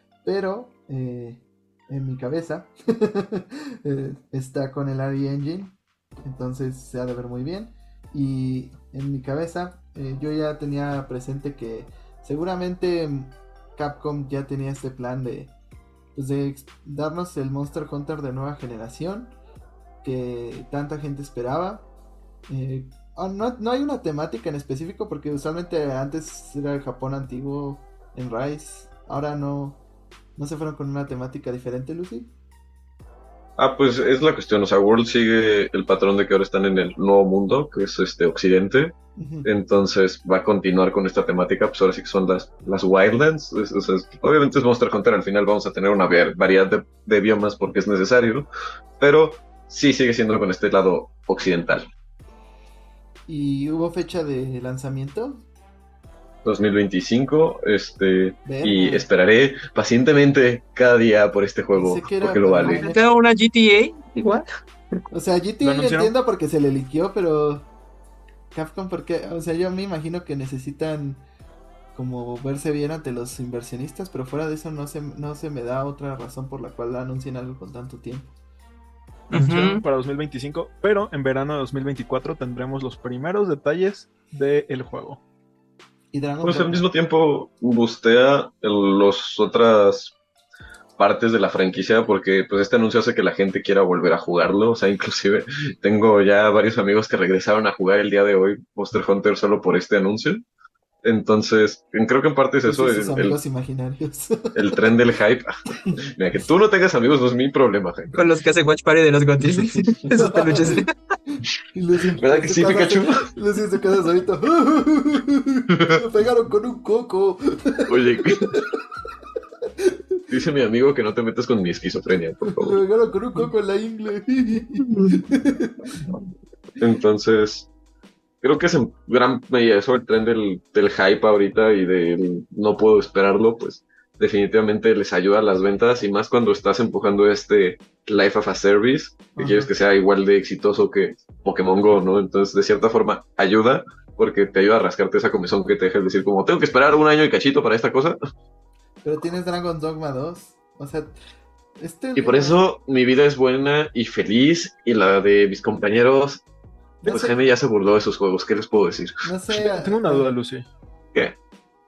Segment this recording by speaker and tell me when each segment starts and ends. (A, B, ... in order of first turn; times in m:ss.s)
0:00.2-0:15.5 A
0:16.2-0:19.4 A
0:20.0-0:21.9 A
0:22.5-0:29.8 A
0:30.4-0:32.3 A
0:33.6-0:48.5 B
0:39.2-0:39.5 A
0:49.0-0:51.9 B
0:53.3-0:55.4 A
0:56.4-1:02.8 B
0:58.4-0:59.1 A
1:01.7-1:03.0 A
1:02.6-1:04.5 C
1:05.1-1:07.7 A
1:05.6-1:06.1 D
1:08.5-1:11.2 A
1:11.9-1:18.3 A
1:19.3-1:19.8 C
1:19.3-1:25.2 D
1:26.1-1:26.8 A
1:26.4-1:30.2 B
1:31.0-1:40.4 B
1:41.0-1:43.4 B
1:42.7-1:44.8 A
1:44.6-1:45.5 B
1:46.2-1:48.2 B
1:48.1-1:50.9 C
1:50.1-1:58.8 A
1:52.2-1:53.2 B
1:57.9-1:58.6 B
2:00.3-2:02.8 B
2:02.5-2:06.0 A
2:04.8-2:05.2 C
2:06.8-2:07.7 B
2:08.4-2:28.2 B
2:19.4-2:19.7 A
2:29.0-2:31.1 A
2:31.8-2:32.6 A
2:32.2-2:36.4 B
2:37.0-2:37.3 A
2:37.1-2:39.2 B
2:39.2-2:40.3 A
2:39.8-2:40.7 D